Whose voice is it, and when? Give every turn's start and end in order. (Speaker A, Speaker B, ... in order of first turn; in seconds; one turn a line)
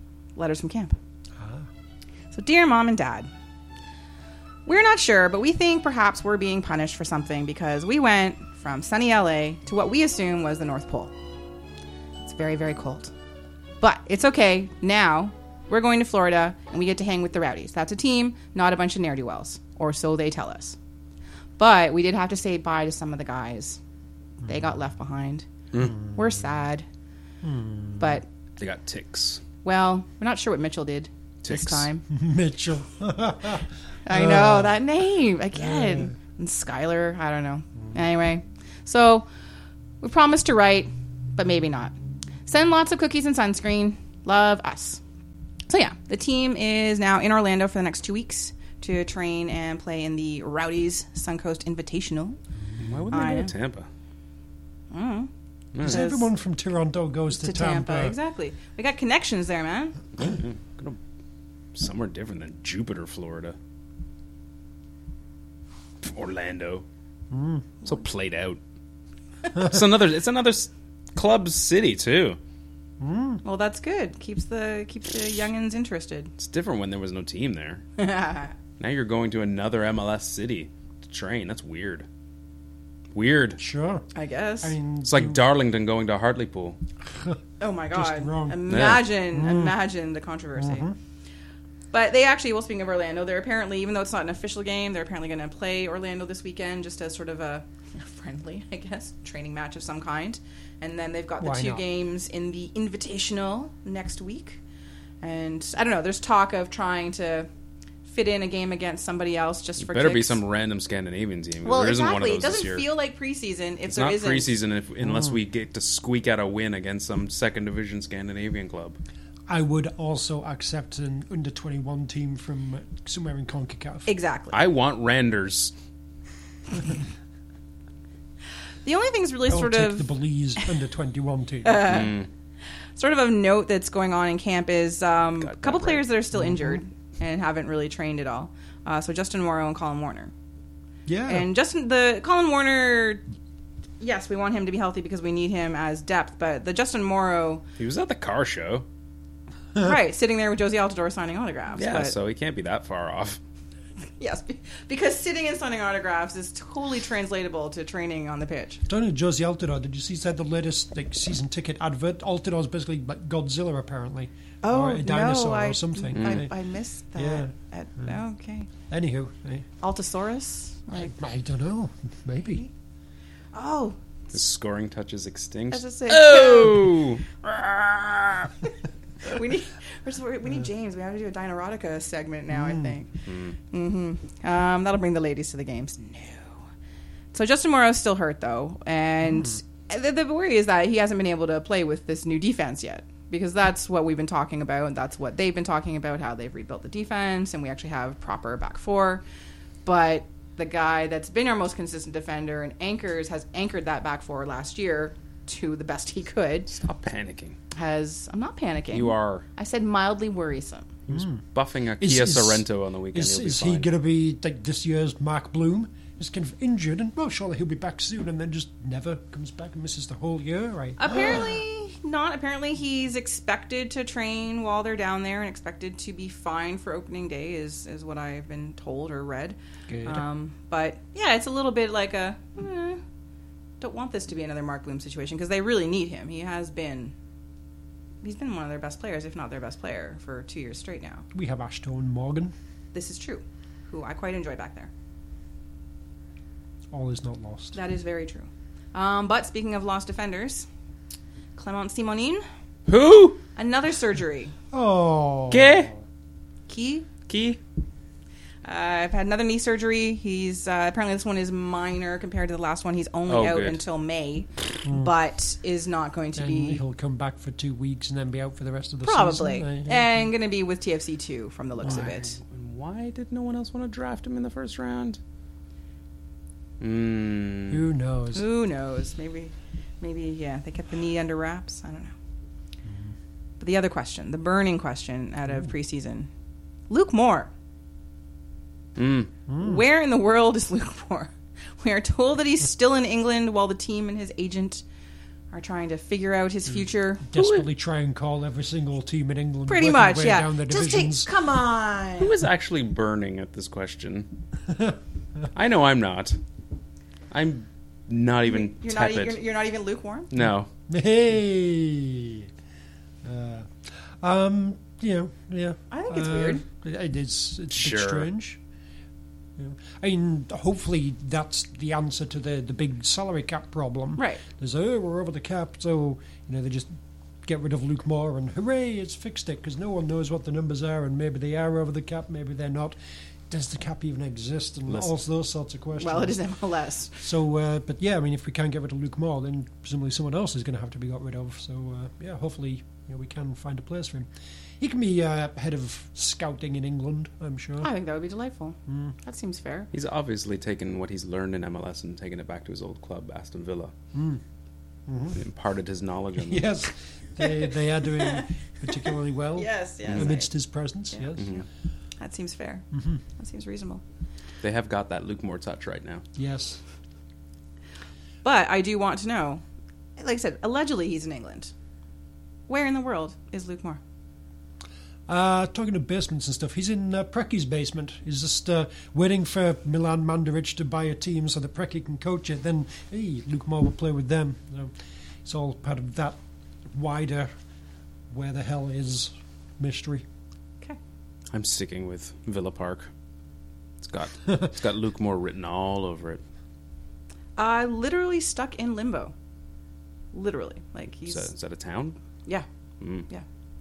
Speaker A: 0.4-0.9
Speaker B: 1.4-1.7
Speaker A: 2.3-3.3
Speaker A: 4.7-11.1
Speaker A: 12.2-13.1
Speaker A: 13.8-20.8
Speaker A: 21.6-23.8
Speaker A: 24.5-25.5
Speaker B: 25.9-26.1
Speaker A: 26.1-26.9
Speaker B: 27.4-28.2
Speaker A: 28.0-28.2
Speaker C: 28.6-29.4
Speaker A: 29.6-32.0
Speaker C: 31.4-31.9
Speaker B: 32.1-34.8
Speaker A: 34.0-39.3
Speaker B: 35.5-36.1
Speaker A: 40.0-42.0
Speaker A: 42.5-45.0
Speaker A: 45.7-52.4
Speaker C: 52.8-53.9
Speaker A: 53.1-53.5
Speaker A: 54.9-55.3
Speaker C: 55.7-56.0
Speaker B: 55.8-58.2
Speaker A: 55.8-56.3
Speaker A: 57.3-60.0
Speaker C: 60.2-61.0
Speaker C: 61.8-63.6
Speaker C: 66.0-66.8
Speaker B: 67.3-67.7
Speaker C: 67.8-68.6
Speaker C: 69.5-72.4
Speaker B: 73.0-73.4
Speaker A: 73.4-76.3
Speaker C: 76.4-77.8
Speaker A: 78.0-78.5
Speaker C: 78.8-82.1
Speaker C: 83.1-83.6
Speaker B: 83.6-84.0
Speaker A: 84.1-84.8
Speaker B: 84.6-85.4
Speaker C: 85.1-86.8
Speaker B: 87.1-87.4
Speaker A: 87.6-90.9
Speaker B: 87.9-89.8
Speaker C: 88.7-89.1
Speaker B: 90.6-91.0
Speaker A: 91.9-104.6
Speaker B: 101.4-101.8
Speaker A: 105.2-107.5
Speaker A: 108.1-110.4
Speaker C: 109.8-112.9
Speaker A: 111.7-114.6
Speaker C: 113.9-119.0
Speaker B: 115.0-115.3
Speaker B: 119.5-124.1
Speaker A: 124.1-124.6
Speaker C: 124.5-125.7
Speaker A: 128.8-130.1
Speaker B: 129.5-132.1
Speaker A: 131.7-132.2
Speaker C: 131.9-132.3
Speaker A: 133.0-140.3
Speaker C: 135.4-136.1
Speaker B: 136.3-136.8
Speaker B: 141.1-141.5
Speaker A: 141.3-143.2
Speaker A: 144.0-147.6
Speaker C: 147.8-148.9
Speaker A: 149.8-152.2
Speaker C: 151.8-153.4
Speaker A: 154.2-158.8
Speaker B: 158.9-166.5
Speaker A: 164.6-168.7
Speaker C: 166.2-166.5
Speaker B: 167.2-167.5
Speaker B: 168.9-169.7
Speaker A: 169.8-171.1
Speaker B: 170.9-172.7
Speaker A: 173.5-174.0
Speaker C: 174.3-178.5
Speaker A: 175.7-177.0
Speaker A: 179.3-183.1
Speaker B: 182.5-182.9
Speaker C: 183.3-183.6
Speaker A: 183.7-186.6
Speaker A: 187.3-199.2
Speaker A: 199.8-206.7
Speaker C: 206.7-207.6
Speaker A: 207.7-210.9
Speaker C: 208.9-209.4
Speaker C: 211.1-213.9
Speaker B: 211.1-211.4
Speaker B: 212.0-221.5
Speaker A: 221.0-233.0
Speaker B: 229.9-230.2
Speaker A: 233.8-237.1
Speaker A: 238.2-241.2
Speaker B: 241.3-242.6
Speaker A: 242.9-244.9
Speaker B: 246.9-247.8
Speaker A: 247.8-250.7
Speaker A: 251.6-252.4
Speaker C: 252.9-253.4
Speaker A: 253.6-254.5
Speaker B: 254.7-256.0
Speaker C: 255.5-255.9
Speaker A: 256.7-257.1
Speaker C: 257.3-257.6
Speaker A: 258.6-266.8
Speaker C: 263.3-263.8
Speaker B: 264.9-265.1
Speaker B: 266.4-270.1
Speaker A: 269.0-272.4
Speaker C: 271.8-275.2
Speaker C: 276.8-277.8
Speaker B: 277.7-278.5
Speaker A: 278.3-282.1
Speaker B: 282.9-283.1
Speaker A: 283.6-286.3
Speaker A: 286.9-287.5
Speaker C: 289.0-289.3
Speaker B: 289.5-289.8
Speaker A: 289.6-294.8
Speaker A: 295.5-297.2
Speaker B: 297.3-301.3
Speaker C: 297.4-297.7
Speaker A: 299.7-302.4
Speaker C: 302.2-304.3
Speaker B: 304.7-305.0
Speaker C: 305.5-306.4
Speaker C: 307.3-309.4
Speaker A: 308.4-310.3
Speaker C: 310.3-310.7
Speaker B: 310.9-312.5
Speaker B: 313.2-318.6
Speaker A: 315.9-316.6
Speaker C: 317.7-318.3
Speaker B: 319.6-326.9
Speaker A: 324.2-324.4
Speaker B: 327.4-333.0
Speaker B: 333.5-336.4
Speaker A: 336.0-337.2
Speaker B: 337.2-347.9
Speaker A: 347.8-349.9
Speaker B: 348.9-349.1
Speaker C: 349.9-353.9
Speaker B: 354.1-354.4
Speaker B: 355.1-355.4
Speaker C: 355.4-356.6
Speaker B: 356.4-361.5
Speaker A: 357.4-360.5
Speaker C: 361.4-361.6
Speaker A: 362.2-362.9
Speaker B: 362.9-363.2
Speaker A: 363.4-364.0
Speaker C: 364.6-366.2
Speaker B: 366.4-366.8
Speaker A: 368.4-369.6
Speaker A: 370.2-371.7
Speaker A: 372.7-374.0
Speaker B: 375.3-384.9
Speaker B: 385.4-386.4
Speaker B: 386.9-387.5
Speaker B: 388.3-390.2
Speaker C: 391.5-393.1
Speaker C: 394.0-396.4
Speaker A: 397.6-399.4
Speaker A: 400.3-401.5
Speaker C: 401.3-402.2
Speaker C: 403.0-403.3